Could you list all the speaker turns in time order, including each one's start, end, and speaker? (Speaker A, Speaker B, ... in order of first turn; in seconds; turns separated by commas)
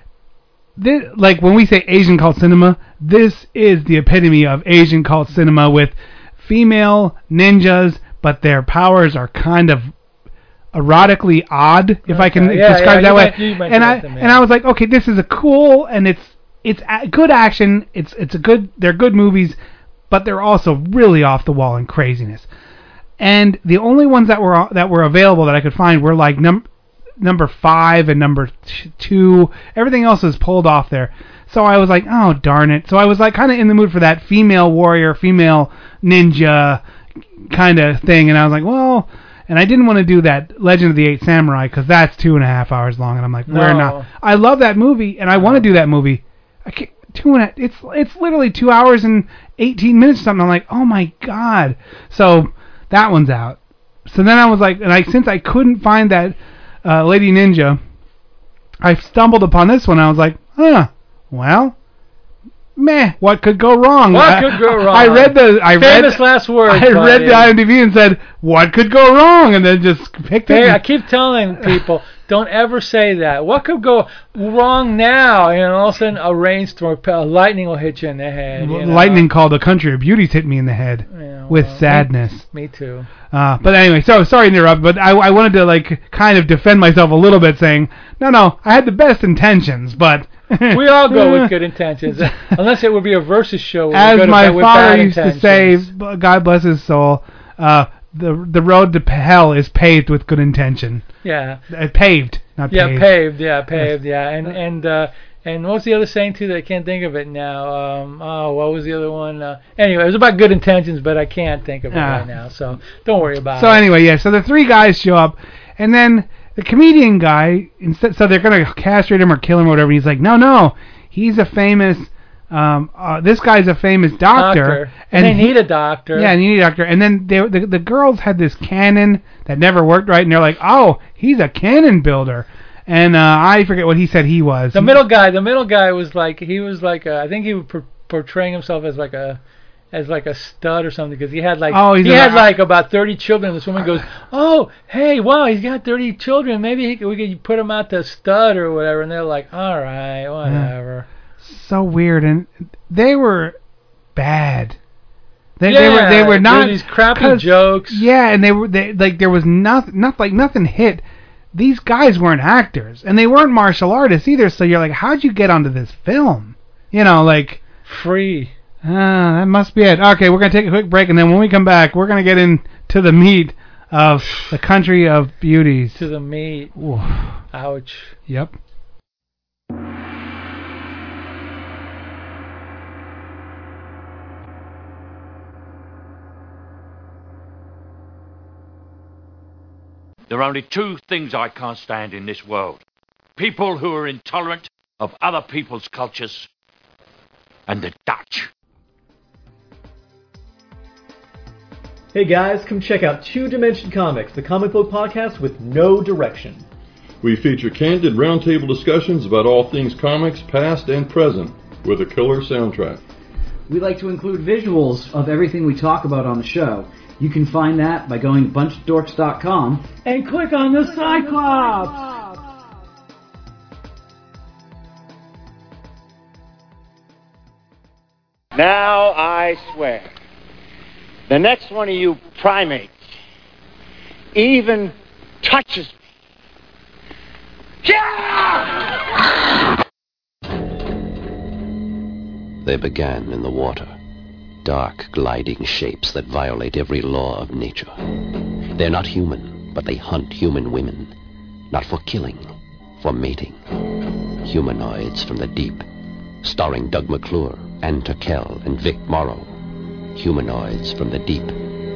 Speaker A: 0.8-9.9, Speaker A: 10.7-19.6, Speaker B: 12.1-14.4, Speaker A: 20.1-22.5, Speaker A: 23.2-26.6, Speaker A: 27.2-36.8, Speaker A: 37.4-57.8, Speaker B: 43.5-44.1, Speaker B: 45.4-45.7, Speaker A: 58.8-61.7, Speaker A: 62.8-70.8, Speaker B: 64.1-67.5, Speaker B: 70.5-79.3, Speaker A: 78.5-82.4, Speaker B: 81.1-83.1, Speaker A: 83.3-91.5, Speaker B: 90.7-95.8, Speaker A: 92.1-92.5, Speaker A: 93.9-101.0, Speaker B: 101.2-101.6, Speaker A: 101.7-103.1, Speaker B: 102.7-113.8, Speaker A: 111.9-112.3, Speaker A: 113.5-125.5, Speaker B: 124.3-126.3, Speaker A: 126.1-135.0, Speaker B: 134.7-139.4, Speaker B: 139.9-151.1, Speaker A: 141.7-142.5, Speaker A: 150.4-150.7, Speaker A: 151.4-153.5, Speaker A: 154.1-154.8, Speaker A: 155.6-167.6, Speaker B: 155.6-158.1, Speaker B: 167.8-168.5, Speaker A: 168.8-176.0, Speaker B: 175.9-176.7, Speaker A: 176.8-177.3, Speaker B: 177.5-178.2, Speaker A: 178.3-178.5, Speaker C: 190.3-192.8, Speaker C: 193.3-196.5, Speaker C: 197.7-198.5, Speaker D: 202.1-206.6, Speaker E: 207.2-213.0, Speaker F: 213.7-219.8, Speaker B: 220.0-222.2, Speaker G: 228.5-230.1, Speaker G: 231.3-232.9, Speaker G: 234.3-235.9, Speaker G: 237.8-238.8, Speaker H: 242.6-243.9, Speaker H: 244.6-247.9, Speaker H: 248.7-251.1, Speaker H: 251.7-252.5, Speaker H: 253.0-253.6, Speaker H: 254.4-255.8, Speaker H: 256.4-259.5, Speaker H: 260.1-261.6